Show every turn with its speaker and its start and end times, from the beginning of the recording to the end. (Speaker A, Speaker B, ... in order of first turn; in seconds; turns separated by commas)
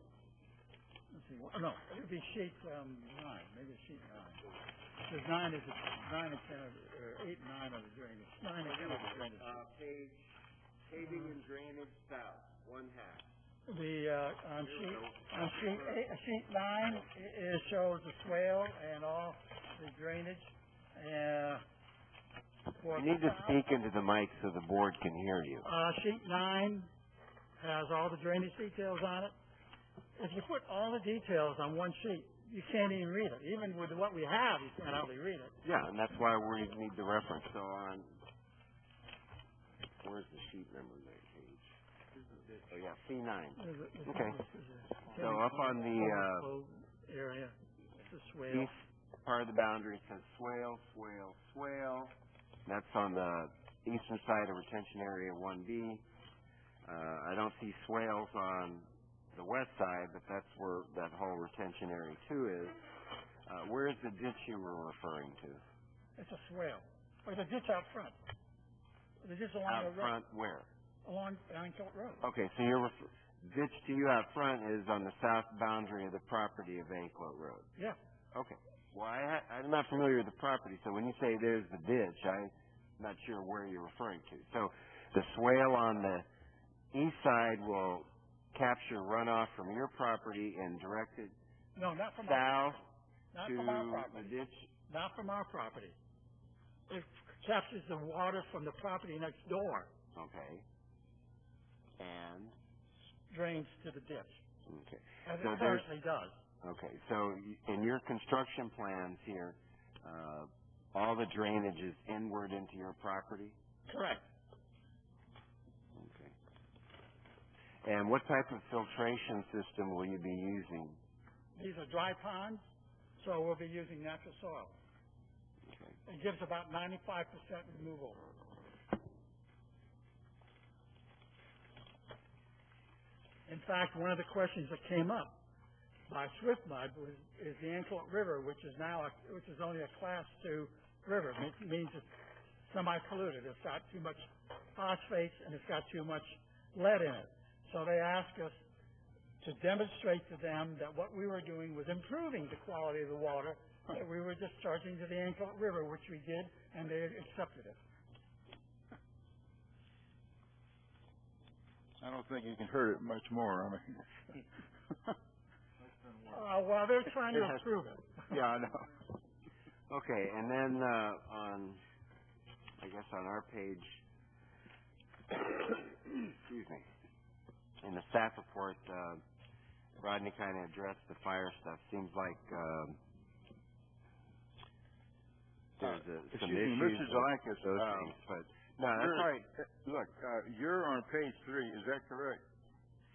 Speaker A: 1.1-4.5, Speaker A: 5.0-9.7, Speaker B: 8.6-10.3, Speaker B: 10.9-13.3, Speaker A: 11.0-11.3, Speaker A: 13.7-21.6, Speaker B: 14.6-16.1, Speaker A: 22.8-23.6, Speaker B: 22.9-25.7, Speaker A: 25.6-26.9, Speaker A: 27.6-29.4, Speaker A: 30.2-35.6, Speaker B: 35.6-38.2, Speaker B: 40.0-41.7, Speaker B: 42.7-44.4, Speaker A: 43.6-48.7, Speaker B: 45.1-46.5, Speaker B: 48.5-56.0, Speaker B: 56.9-62.8, Speaker B: 63.5-65.6, Speaker A: 66.2-68.2, Speaker A: 69.2-70.2, Speaker B: 69.7-70.7, Speaker A: 71.0-72.3, Speaker B: 72.2-77.7, Speaker B: 78.3-86.3, Speaker B: 86.9-91.3, Speaker A: 91.8-96.0, Speaker B: 92.2-92.9, Speaker B: 93.4-94.7, Speaker A: 96.9-99.9, Speaker B: 100.2-100.7, Speaker B: 102.0-102.6, Speaker A: 103.3-104.4, Speaker B: 104.7-105.9, Speaker A: 105.2-106.4, Speaker B: 106.6-113.6, Speaker A: 113.9-114.3, Speaker B: 116.0-116.3, Speaker B: 117.8-121.0, Speaker A: 121.6-122.6, Speaker A: 123.2-124.8, Speaker B: 125.7-126.0, Speaker A: 126.1-128.2, Speaker A: 133.5-135.4, Speaker A: 136.1-142.1, Speaker A: 142.7-148.6, Speaker A: 149.4-157.8, Speaker C: 162.0-164.4, Speaker A: 166.3-168.4, Speaker C: 167.3-167.6, Speaker C: 168.3-168.9, Speaker B: 169.9-171.8, Speaker B: 172.8-174.0, Speaker B: 175.3-176.9, Speaker B: 177.8-179.2, Speaker B: 180.0-183.0, Speaker B: 185.8-189.3, Speaker C: 185.8-188.2, Speaker C: 188.9-192.4